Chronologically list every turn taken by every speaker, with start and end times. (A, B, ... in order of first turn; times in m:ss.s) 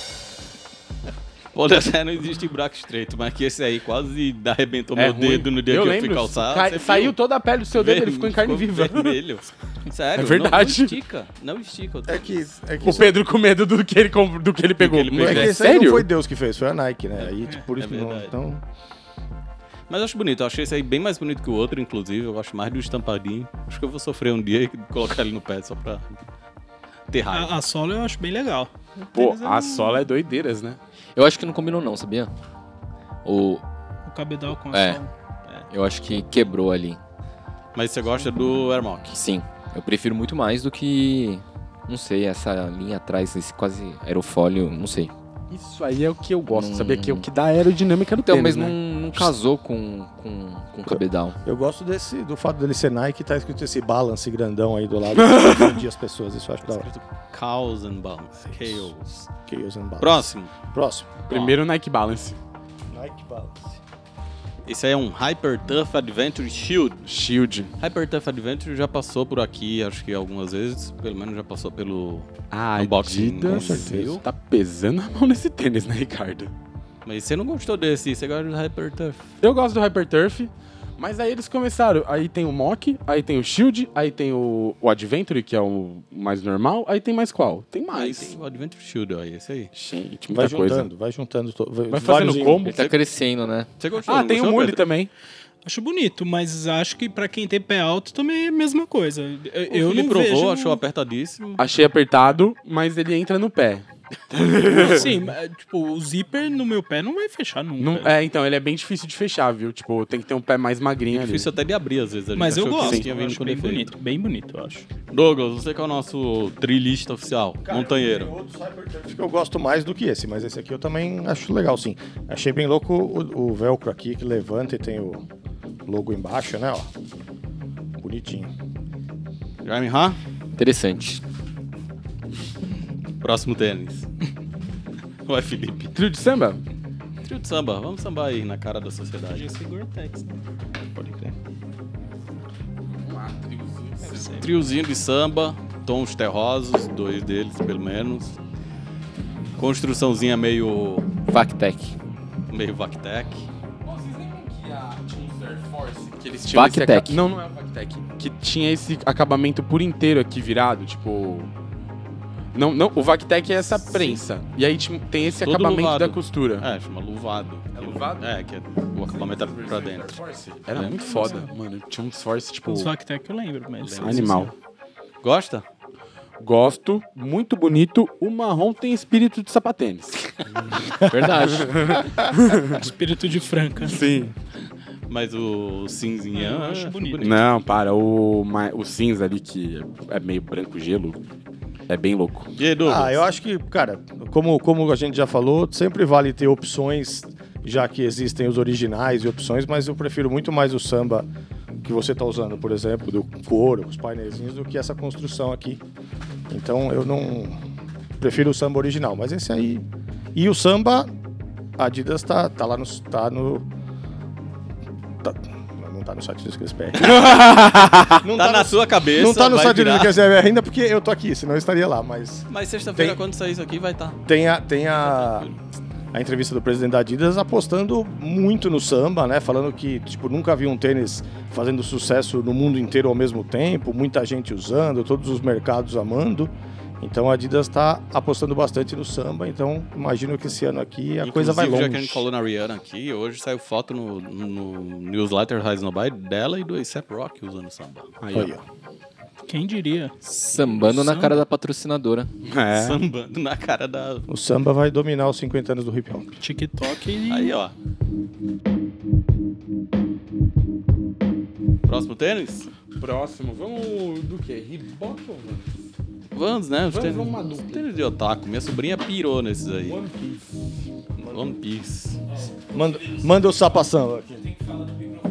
0:01.5-0:07.1 A
0:04.9-0:09.2 B
0:07.7-0:13.0 A
0:10.1-0:11.0 B
0:12.1-0:13.2 C
0:12.8-0:16.1 B
0:14.8-0:15.7 A
0:15.1-0:18.6 C
0:17.2-0:18.3 A
0:19.9-0:26.0 A
0:27.1-0:27.5 A
0:27.3-0:30.0 D
0:29.1-0:30.8 B
0:31.1-0:32.3 E
0:33.2-0:33.6 E
0:34.0-0:35.7 D
0:34.7-0:35.0 E
0:35.7-0:37.0 E
0:37.7-0:39.2 A
0:39.1-0:45.1 E
0:45.5-0:49.3 B
0:46.5-0:47.3 E
0:48.2-0:51.4 E
0:50.9-0:56.9 C
0:55.2-0:55.8 B
0:56.6-0:59.3 A
0:59.5-1:01.1 C
1:00.0-1:00.5 A
1:01.3-1:02.4 B
1:01.3-1:01.5 A
1:02.9-1:03.6 C
1:04.6-1:07.0 A
1:07.0-1:07.7 B
1:07.8-1:14.2 A
1:12.5-1:16.5 B
1:13.4-1:14.2 C
1:17.0-1:19.3 A
1:19.4-1:28.4 B
1:27.9-1:29.7 A
1:29.7-1:30.9 B
1:30.3-1:32.6 C
1:31.9-1:32.8 B
1:32.6-1:33.7 E
1:32.7-1:33.0 A
1:33.8-1:34.8 A
1:34.0-1:35.1 B
1:35.6-1:40.8 D
1:39.7-1:41.6 A
1:41.6-1:45.3 B
1:44.7-1:48.1 D
1:47.8-1:51.5 B
1:51.1-1:53.9 A
1:52.4-1:54.9 D
1:52.8-1:53.1 B
1:55.1-1:58.3 A
1:57.6-2:05.2 C
2:05.9-2:06.9 C
2:08.0-2:08.5 C
2:09.6-2:10.2 A
2:10.6-2:11.2 E
2:13.2-2:14.1 A
2:15.2-2:15.9 A
2:15.9-2:16.6 B
2:17.2-2:19.5 A
2:19.3-2:20.4 D
2:20.9-2:21.3 C
2:22.9-2:24.4 B
2:24.0-2:24.5 D
2:24.4-2:28.4 A
2:29.6-2:31.1 A
2:31.3-2:32.0 E
2:32.5-2:33.5 A
2:33.8-2:41.5 B
2:36.5-2:37.2 E
2:42.5-2:46.7 B
2:43.7-2:44.2 A
2:45.4-2:50.2 A
2:47.7-2:48.3 B
2:49.1-2:52.9 B
2:50.7-2:51.4 A
2:51.0-2:51.5 D
2:52.6-2:54.5 D
2:53.8-2:54.5 A
2:54.0-2:54.5 B
2:55.2-2:55.6 A
2:56.4-3:02.9 B
3:01.1-3:02.0 E
3:02.6-3:04.0 D
3:03.8-3:04.3 B
3:05.1-3:07.4 A
3:06.3-3:07.4 D
3:07.2-3:11.2 B
3:11.9-3:12.5 B
3:12.6-3:13.2 A
3:12.8-3:21.3 C
3:21.8-3:25.8 C
3:26.5-3:27.6 C
3:28.2-3:31.1 C
3:31.8-3:33.6 C
3:35.2-3:43.2 C
3:37.0-3:40.2 A
3:37.1-3:38.2 B
3:42.5-3:44.2 A
3:44.2-3:45.5 C
3:44.9-3:45.6 A
3:46.1-4:02.2 C
4:01.2-4:08.1 A
4:08.2-4:08.5 B
4:08.3-4:08.6 C
4:09.5-4:10.1 D
4:10.2-4:12.3 E
4:10.8-4:11.3 D
4:12.4-4:13.0 B
4:12.7-4:14.3 A
4:14.3-4:16.4 C
4:16.4-4:17.6 D
4:17.3-4:17.7 A
4:21.8-4:22.7 A
4:23.0-4:25.8 B
4:26.3-4:30.0 A
4:26.9-4:27.9 B
4:29.9-4:30.7 B
4:31.2-4:32.2 A
4:32.6-4:34.6 C